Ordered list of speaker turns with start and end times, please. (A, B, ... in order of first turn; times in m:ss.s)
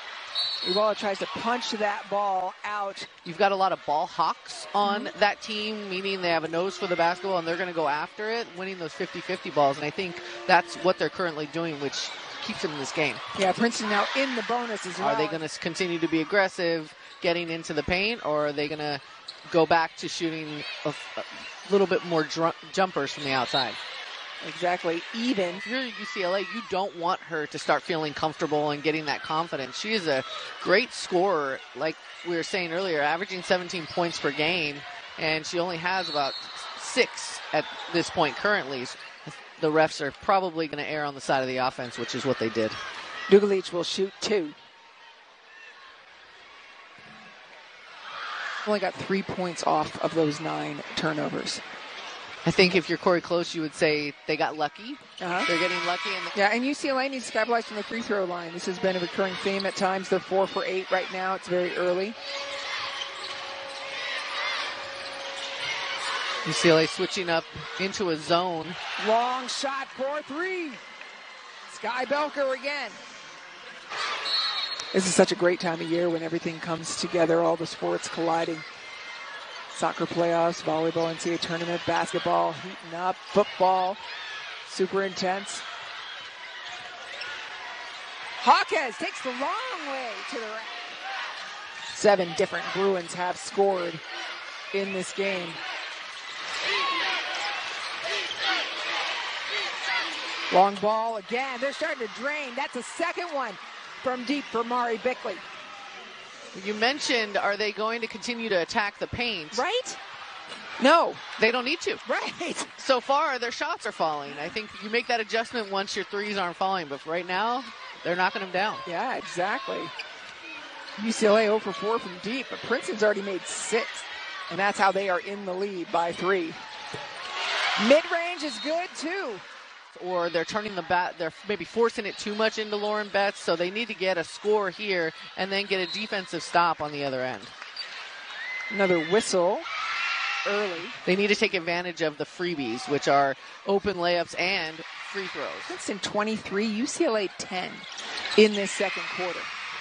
0:00.6-0:03.1 A
0:03.2-0:13.2 B
0:04.8-0:05.1 A
0:13.4-0:15.4 A
0:15.0-0:23.8 B
0:24.4-0:25.6 A
0:25.6-0:42.8 B
0:43.3-0:44.6 A
0:48.6-0:51.6 A
0:52.4-0:56.3 B
0:55.2-0:55.5 A
0:56.3-1:02.2 A
1:06.4-1:08.8 B
1:09.0-1:10.8 A
1:11.7-1:13.0 A
1:14.9-1:18.6 A
1:19.7-1:24.0 A
1:24.6-1:25.6 A
1:28.4-1:31.0 A
1:31.9-1:34.0 A
1:34.7-1:35.6 A
1:40.5-1:45.4 A
1:46.5-1:49.6 B
1:49.5-1:50.0 A
1:50.8-1:51.2 A
1:51.4-1:52.0 B
1:52.0-1:52.7 A
1:52.8-1:58.8 B
1:58.8-1:59.9 A
2:01.0-2:06.6 A
2:07.8-2:09.4 A
2:09.9-2:17.5 B
2:18.7-2:19.7 A
2:20.4-2:21.0 A
2:21.0-2:25.7 B
2:25.7-2:27.8 A
2:28.4-2:29.5 A